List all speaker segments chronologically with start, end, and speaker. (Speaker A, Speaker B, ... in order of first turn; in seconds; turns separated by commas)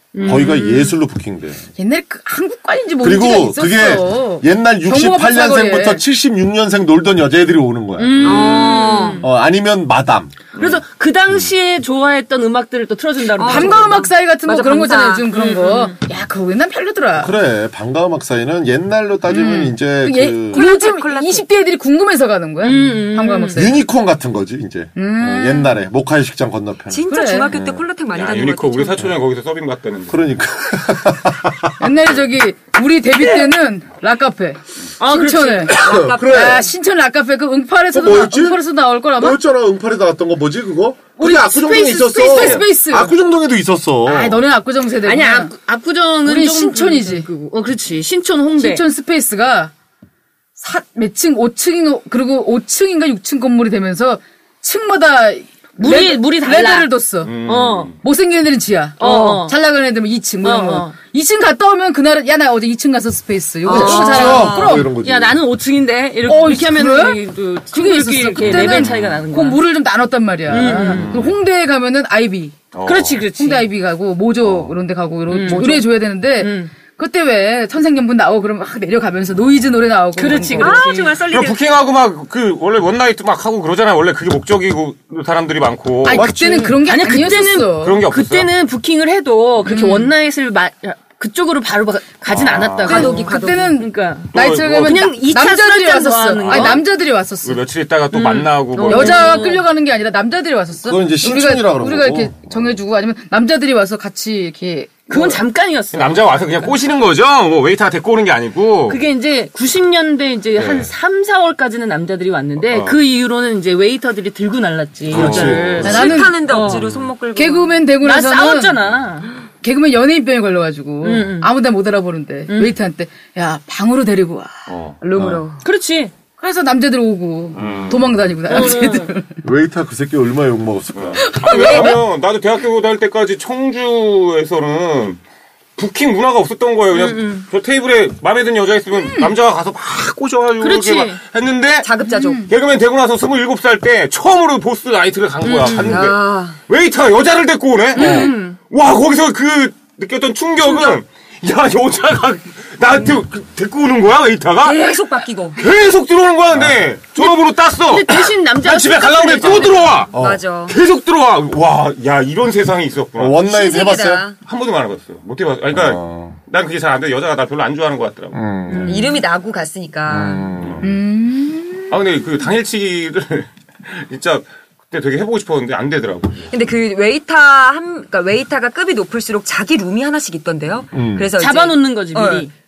Speaker A: 0.1-0.9, Speaker B: 0.2-1.6, Speaker C: 1.8-6.0, Speaker B: 3.0-10.3, Speaker A: 8.0-9.3, Speaker D: 8.2-9.2, Speaker A: 10.5-13.9, Speaker D: 13.4-15.3, Speaker C: 13.4-17.3, Speaker A: 15.3-15.9, Speaker B: 17.2-20.7, Speaker C: 19.3-23.8, Speaker D: 20.5-21.4, Speaker A: 22.6-23.7, Speaker B: 23.5-27.8, Speaker C: 24.9-25.8, Speaker D: 26.9-29.1, Speaker C: 27.1-27.5, Speaker E: 28.1-30.2, Speaker B: 30.1-31.8, Speaker C: 31.8-39.4, Speaker A: 35.0-35.7, Speaker B: 35.7-36.6, Speaker D: 35.7-36.7, Speaker B: 37.9-38.6, Speaker B: 39.2-44.4, Speaker C: 41.2-43.1, Speaker A: 41.5-42.6, Speaker C: 44.0-45.5, Speaker A: 45.0-48.8, Speaker C: 46.2-47.3, Speaker C: 48.6-49.7, Speaker C: 50.6-57.3, Speaker A: 55.8-57.9, Speaker E: 57.2-57.9, Speaker C: 58.0-64.9, Speaker A: 59.0-59.5, Speaker A: 60.4-61.0, Speaker A: 63.6-69.6, Speaker D: 63.7-64.7, Speaker B: 63.7-65.4, Speaker C: 66.2-72.5, Speaker E: 68.4-69.2, Speaker A: 70.5-71.1, Speaker E: 70.5-71.4, Speaker E: 72.7-73.2, Speaker A: 72.8-73.7, Speaker C: 73.3-80.9, Speaker E: 74.4-74.7, Speaker A: 75.3-76.7, Speaker A: 80.2-81.2, Speaker D: 80.5-81.6, Speaker E: 81.3-86.3, Speaker C: 86.0-88.0, Speaker B: 86.1-86.7, Speaker A: 86.8-96.8, Speaker E: 87.7-88.5, Speaker C: 89.6-90.1, Speaker E: 92.3-93.1, Speaker D: 92.8-93.8, Speaker C: 92.8-97.6, Speaker E: 94.3-95.1, Speaker E: 96.4-96.8, Speaker E: 97.4-99.5, Speaker A: 98.1-99.7, Speaker C: 98.8-105.4, Speaker B: 100.8-102.6, Speaker A: 105.1-106.7, Speaker E: 105.9-109.0, Speaker A: 108.9-116.8, Speaker E: 110.6-110.9, Speaker E: 112.7-113.0, Speaker B: 115.1-116.0, Speaker E: 115.1-117.1, Speaker C: 115.8-116.8, Speaker D: 115.8-117.8, Speaker C: 117.3-118.8, Speaker A: 118.0-119.3, Speaker C: 119.6-124.5, Speaker A: 121.0-121.5, Speaker A: 122.5-122.7, Speaker E: 124.7-125.0, Speaker D: 125.0-125.6, Speaker B: 125.2-125.4, Speaker A: 125.6-126.1, Speaker C: 126.4-129.4, Speaker E: 127.5-128.1, Speaker A: 128.5-129.2, Speaker B: 129.4-131.8, Speaker E: 130.9-135.2, Speaker C: 131.2-132.0, Speaker E: 135.8-141.9, Speaker A: 136.9-137.4, Speaker C: 138.9-139.3, Speaker A: 140.6-141.2, Speaker D: 141.8-142.5, Speaker C: 142.1-142.5, Speaker E: 142.5-154.9, Speaker A: 145.4-146.0, Speaker D: 145.7-146.6, Speaker A: 147.9-148.6, Speaker B: 148.0-148.3, Speaker A: 150.7-151.0, Speaker D: 154.6-155.6, Speaker E: 155.6-160.2, Speaker A: 157.2-159.9, Speaker B: 160.1-160.4, Speaker D: 160.1-160.8, Speaker E: 160.7-163.4, Speaker B: 163.2-164.2, Speaker D: 163.4-164.4, Speaker E: 164.4-169.0, Speaker B: 165.7-166.4, Speaker B: 168.3-169.2, Speaker D: 168.7-170.5, Speaker B: 170.1-170.9, Speaker C: 170.8-171.9, Speaker E: 171.9-176.5, Speaker D: 176.5-182.5, Speaker B: 180.9-181.3, Speaker A: 181.4-182.5